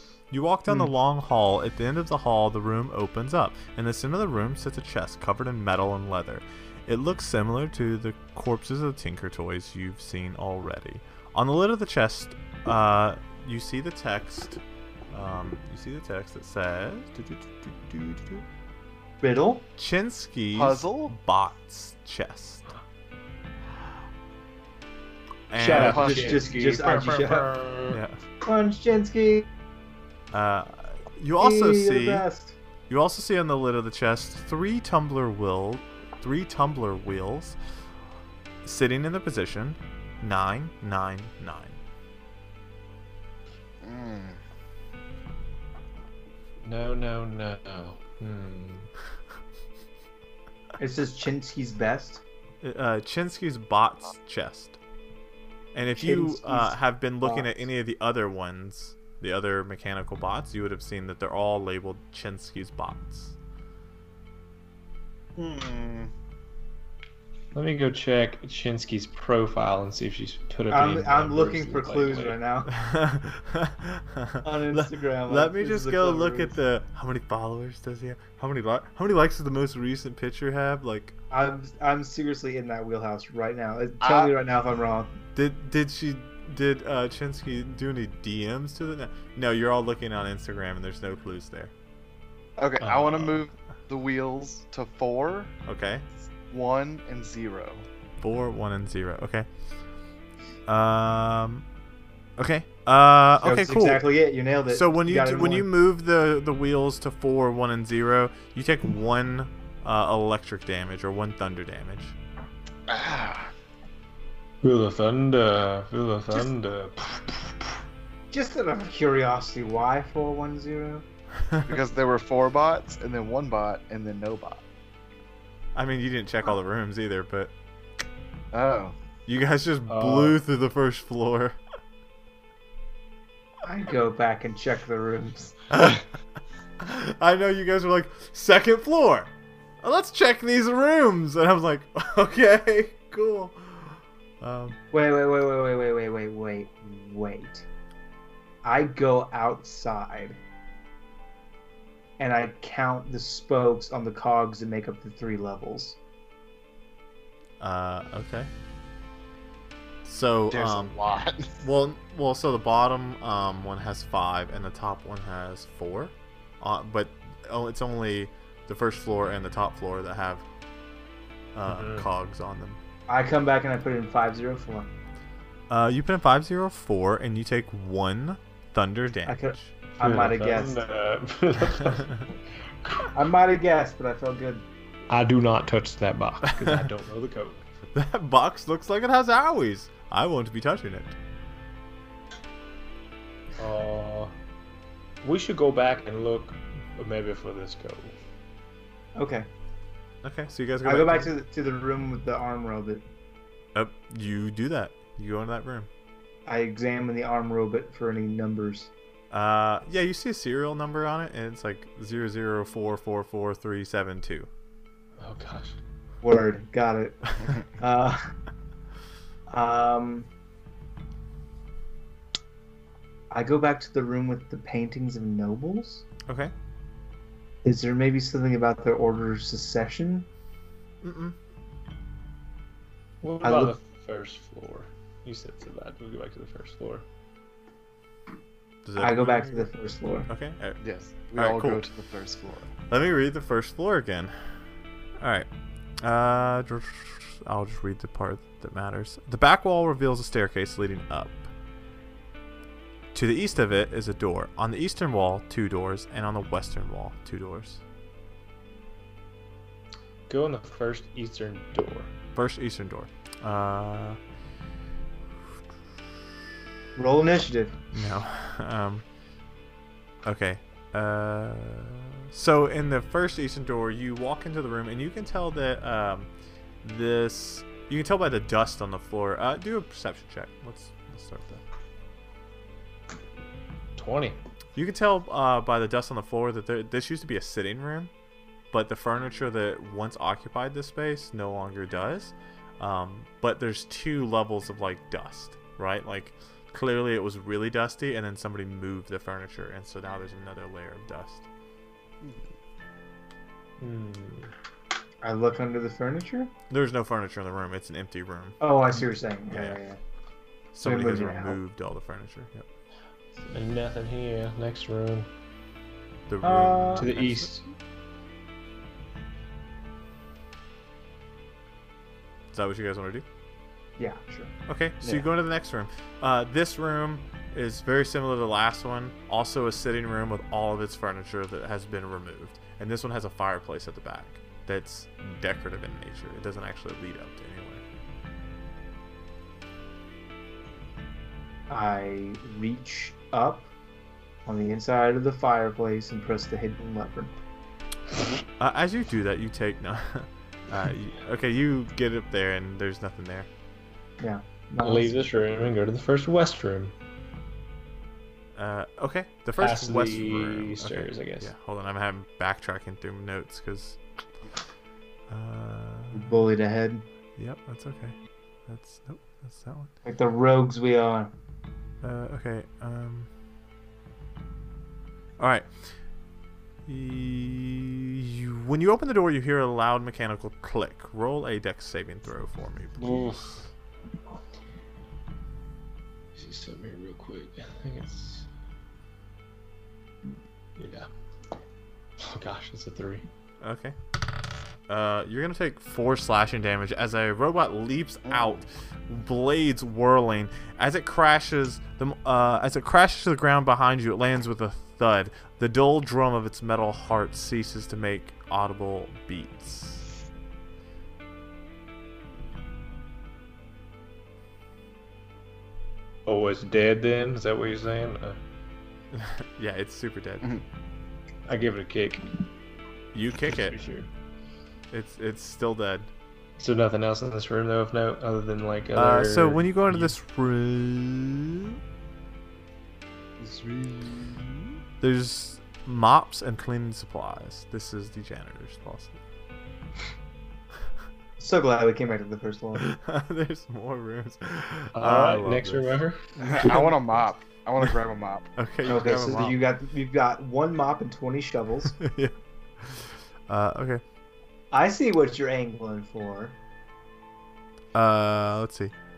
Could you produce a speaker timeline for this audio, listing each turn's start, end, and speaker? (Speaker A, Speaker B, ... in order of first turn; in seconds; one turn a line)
Speaker A: 0.3-18.4
Speaker B: 19.2-19.7
Speaker A: 19.8-22.6
Speaker C: 20.5-21.1
Speaker A: 25.5-26.1
Speaker B: 25.5-27.5
Speaker D: 25.6-28.0
Speaker C: 25.8-26.4
Speaker A: 27.9-28.2
Speaker B: 28.4-29.4
Speaker A: 30.3-32.3
Speaker B: 31.4-32.5
Speaker A: 32.9-37.6
Speaker A: 38.6-41.8
Speaker C: 43.8-44.4
Speaker D: 46.6-48.9
Speaker B: 50.8-52.2
Speaker A: 52.6-54.8
Speaker A: 55.7-63.4
Speaker B: 55.9-57.5
Speaker C: 65.3-66.1
Speaker D: 67.5-72.4
Speaker B: 70.7-72.7
Speaker A: 72.7-81.1
Speaker B: 74.4-76.6
Speaker B: 81.3-85.2
Speaker C: 84.0-84.3
Speaker A: 85.3-91.7
Speaker C: 92.6-95.5
Speaker D: 92.8-93.2
Speaker A: 95.7-96.0
Speaker C: 96.3-97.8
Speaker A: 98.2-99.5
Speaker A: 100.7-101.6
Speaker A: 102.4-104.0
Speaker B: 103.4-105.7
Speaker A: 104.7-112.2
Speaker C: 112.9-113.5
Speaker D: 114.6-117.7
Speaker B: 118.3-121.0
Speaker C: 121.6-124.6
Speaker A: 125.7-127.5
Speaker C: 128.5-128.9
Speaker A: 129.3-131.6
Speaker D: 129.9-130.4
Speaker B: 133.6-135.6
Speaker A: 135.7-136.0
Speaker A: 136.8-139.3
Speaker A: 139.8-144.8
Speaker B: 144.9-147.7
Speaker B: 148.6-150.4
Speaker B: 152.2-156.0
Speaker A: 157.6-158.5
Speaker A: 160.0-160.9
Speaker C: 160.5-161.6
Speaker A: 161.6-170.4
Speaker A: 171.5-172.8
Speaker D: 171.7-172.1
Speaker B: 173.1-174.9
Speaker A: 175.7-179.7
Speaker B: 179.2-180.8
Speaker D: 180.0-182.1
Speaker A: 181.9-182.2
Speaker B: 183.1-184.7
Speaker D: 185.1-187.7
Speaker A: 186.5-186.9
Speaker A: 187.9-191.2
Speaker D: 193.6-194.3
Speaker D: 195.2-198.2
Speaker B: 199.2-199.5
Speaker A: 200.2-201.3
Speaker B: 200.8-203.0
Speaker A: 203.7-205.9
Speaker B: 206.4-208.9
Speaker A: 209.3-214.5
Speaker D: 215.2-215.8
Speaker B: 216.2-218.2
Speaker B: 219.5-220.3
Speaker B: 223.3-226.0
Speaker A: 226.3-226.5
Speaker B: 227.6-230.3
Speaker A: 231.0-231.4
Speaker D: 233.2-237.0
Speaker B: 233.4-233.8
Speaker A: 238.8-239.7
Speaker B: 239.0-240.3
Speaker A: 240.3-240.8
Speaker C: 240.8-242.7
Speaker A: 241.3-241.8
Speaker A: 242.9-244.3
Speaker A: 245.2-245.5
Speaker A: 246.0-251.5
Speaker A: 253.1-257.8
Speaker D: 260.3-262.1
Speaker A: 262.3-264.2
Speaker B: 266.9-267.8
Speaker A: 267.9-269.0
Speaker A: 270.2-276.3
Speaker A: 276.8-281.6
Speaker D: 283.9-284.4
Speaker A: 284.8-288.1
Speaker A: 288.7-301.5
Speaker C: 302.2-302.5
Speaker D: 303.8-304.5
Speaker B: 305.2-306.5
Speaker A: 306.7-308.6
Speaker B: 308.6-310.0
Speaker A: 309.5-309.8
Speaker A: 310.7-312.6
Speaker B: 310.8-311.6
Speaker D: 313.5-315.3
Speaker A: 316.3-317.5
Speaker B: 316.4-317.1
Speaker D: 317.0-317.7
Speaker A: 322.5-323.2
Speaker B: 324.0-324.5
Speaker A: 324.7-337.8
Speaker B: 341.7-343.7
Speaker B: 344.4-347.3
Speaker A: 348.6-353.5
Speaker B: 354.2-355.2
Speaker D: 354.8-356.9
Speaker A: 358.6-364.0
Speaker D: 359.6-361.5
Speaker A: 365.3-366.5
Speaker B: 366.1-367.0
Speaker A: 367.4-369.9
Speaker B: 370.0-371.3
Speaker A: 372.0-373.3
Speaker A: 375.4-375.9
Speaker A: 376.9-383.3
Speaker D: 383.0-383.6
Speaker D: 386.3-388.5
Speaker D: 390.8-391.1
Speaker D: 392.2-393.2
Speaker A: 393.6-393.9
Speaker A: 394.9-410.1
Speaker C: 398.2-398.6
Speaker D: 416.2-418.4
Speaker A: 419.1-420.6
Speaker D: 421.5-422.3
Speaker A: 423.1-423.8
Speaker D: 423.5-424.1
Speaker A: 424.9-426.1
Speaker D: 426.6-430.1
Speaker A: 428.9-431.8
Speaker A: 435.0-439.2
Speaker B: 441.4-442.9
Speaker A: 442.8-445.9
Speaker D: 444.9-446.9
Speaker C: 446.4-448.5
Speaker A: 448.6-449.6
Speaker B: 448.8-452.0
Speaker A: 451.9-454.0
Speaker B: 454.7-456.6
Speaker A: 457.9-458.9